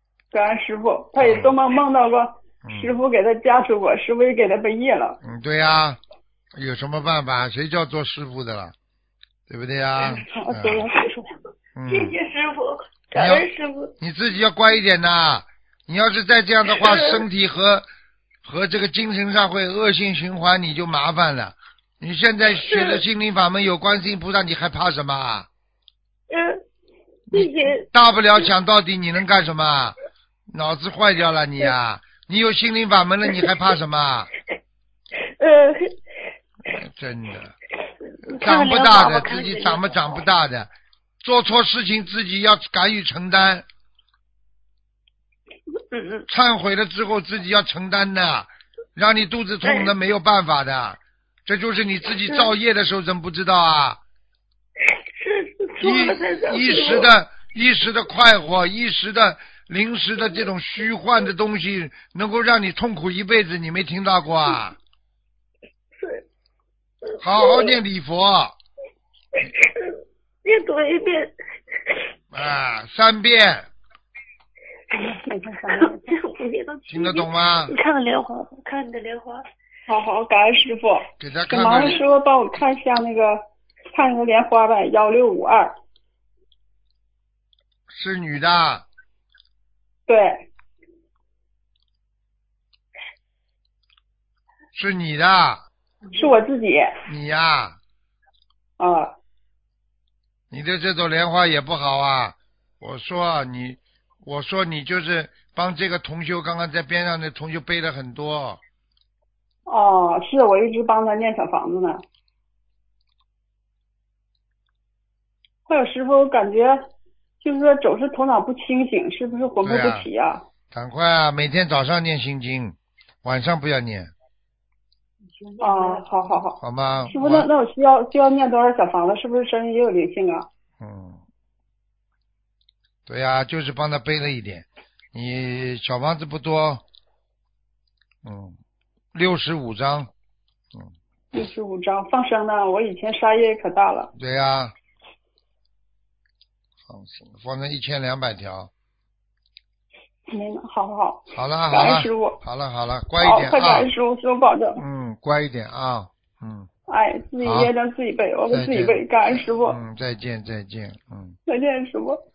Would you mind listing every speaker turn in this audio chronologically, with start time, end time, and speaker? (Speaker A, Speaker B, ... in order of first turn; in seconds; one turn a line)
Speaker A: 0.3-5.2
Speaker B: 1.2-1.6
Speaker B: 2.6-3.0
Speaker B: 5.2-6.0
Speaker B: 6.5-8.8
Speaker B: 9.5-10.8
Speaker A: 10.3-11.3
Speaker B: 11.8-12.2
Speaker C: 11.9-13.9
Speaker B: 13.2-13.5
Speaker B: 14.0-17.9
Speaker C: 16.7-17.2
Speaker B: 18.4-25.5
Speaker C: 22.5-23.0
Speaker C: 26.3-26.6
Speaker C: 27.3-28.5
Speaker B: 27.3-30.0
Speaker B: 30.5-34.3
Speaker C: 35.4-36.0
Speaker B: 36.7-37.5
Speaker C: 38.1-40.2
Speaker B: 38.4-40.7
Speaker B: 41.2-43.7
Speaker C: 45.9-46.3
Speaker B: 46.3-54.0
Speaker C: 49.6-49.9
Speaker C: 52.3-52.5
Speaker C: 55.2-57.1
Speaker B: 55.8-64.8
Speaker C: 66.0-66.2
Speaker C: 67.1-67.8
Speaker B: 67.2-68.6
Speaker C: 69.4-71.3
Speaker B: 72.3-73.7
Speaker A: 74.9-76.1
Speaker C: 75.7-79.4
Speaker B: 76.9-77.7
Speaker A: 79.9-85.8
Speaker B: 81.2-82.0
Speaker B: 87.9-88.9
Speaker A: 90.1-90.5
Speaker B: 94.7-95.7
Speaker C: 96.1-96.4
Speaker A: 96.2-97.0
Speaker B: 97.1-97.8
Speaker A: 98.8-99.2
Speaker B: 100.5-108.6
Speaker A: 109.7-112.0
Speaker A: 115.7-116.9
Speaker A: 117.4-120.4
Speaker B: 119.6-120.1
Speaker B: 120.7-124.1
Speaker C: 125.3-126.3
Speaker A: 125.6-130.5
Speaker B: 126.6-127.5
Speaker B: 130.8-131.2
Speaker B: 133.1-136.8
Speaker B: 138.2-138.6
Speaker B: 139.1-140.1
Speaker A: 141.3-144.1
Speaker B: 144.2-144.8
Speaker B: 146.8-148.7
Speaker A: 150.3-152.4
Speaker B: 151.3-153.9
Speaker A: 153.2-154.8
Speaker B: 154.8-156.7
Speaker A: 156.9-159.8
Speaker B: 157.4-157.7
Speaker B: 158.5-161.4
Speaker A: 161.5-162.2